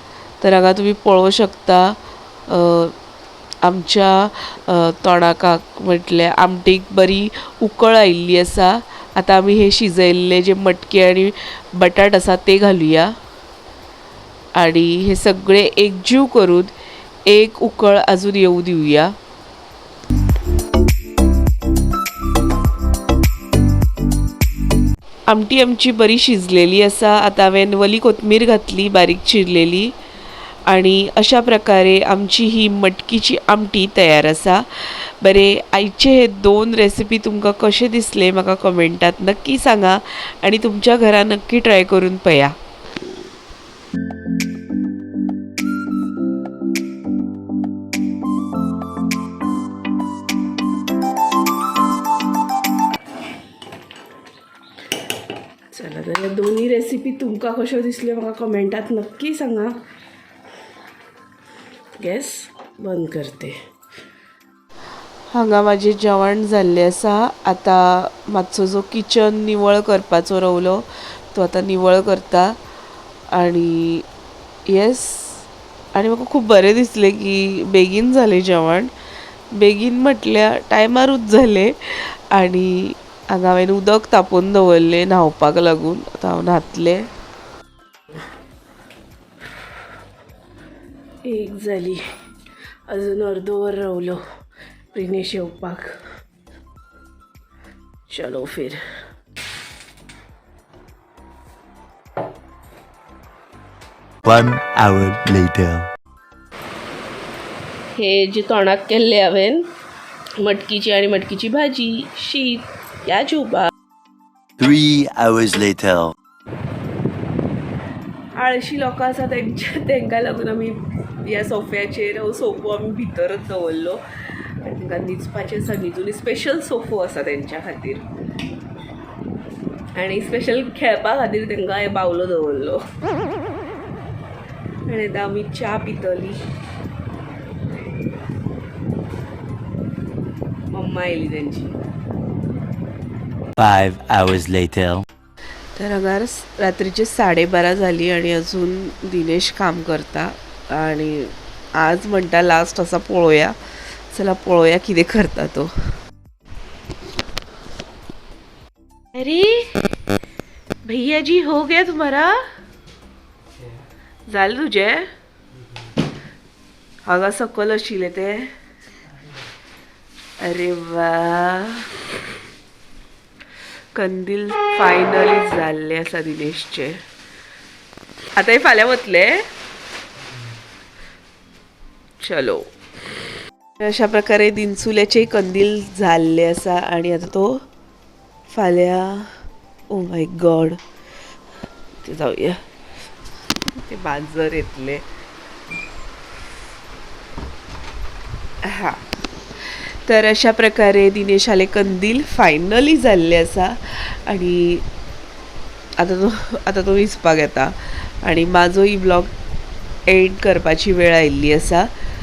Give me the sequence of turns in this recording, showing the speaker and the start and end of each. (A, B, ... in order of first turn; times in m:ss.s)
0:00.4-0:03.0 A
0:03.6-0:13.2 A
0:14.6-0:16.7 A
0:17.3-0:19.2 A
0:25.3-0:30.0 A
0:30.7-0:42.6 A
0:55.7-0:59.8 B
1:02.0-1:03.6 B
1:05.3-1:12.6 A
1:13.3-1:14.1 A
1:14.7-1:18.9 A
1:19.5-1:27.1 A
1:31.2-1:32.0 B
1:32.9-1:34.2 B
1:34.9-1:36.0 B
1:38.1-1:38.8 B
1:44.2-1:45.9 C
1:47.9-1:49.7 B
1:50.4-1:53.7 B
1:54.6-1:56.1 C
1:58.4-2:04.0 B
2:04.6-2:08.1 B
2:10.0-2:12.8 B
2:14.9-2:16.4 B
2:20.7-2:21.8 B
2:23.6-2:25.0 C
2:25.8-2:33.6 A
2:34.1-2:35.7 A
2:39.2-2:39.8 A
2:40.8-2:42.4 A
2:44.3-2:45.1 A
2:47.1-2:48.5 A
2:50.4-2:51.9 A
2:54.0-2:57.0 A
2:58.4-2:59.3 B
3:02.2-3:02.7 B
3:03.8-3:07.6 A
3:08.5-3:10.8 A
3:12.1-3:12.6 A
3:13.7-3:15.0 A
3:18.6-3:19.0 A
3:19.6-3:24.9 A
3:26.0-3:29.3 A
3:30.1-3:31.9 A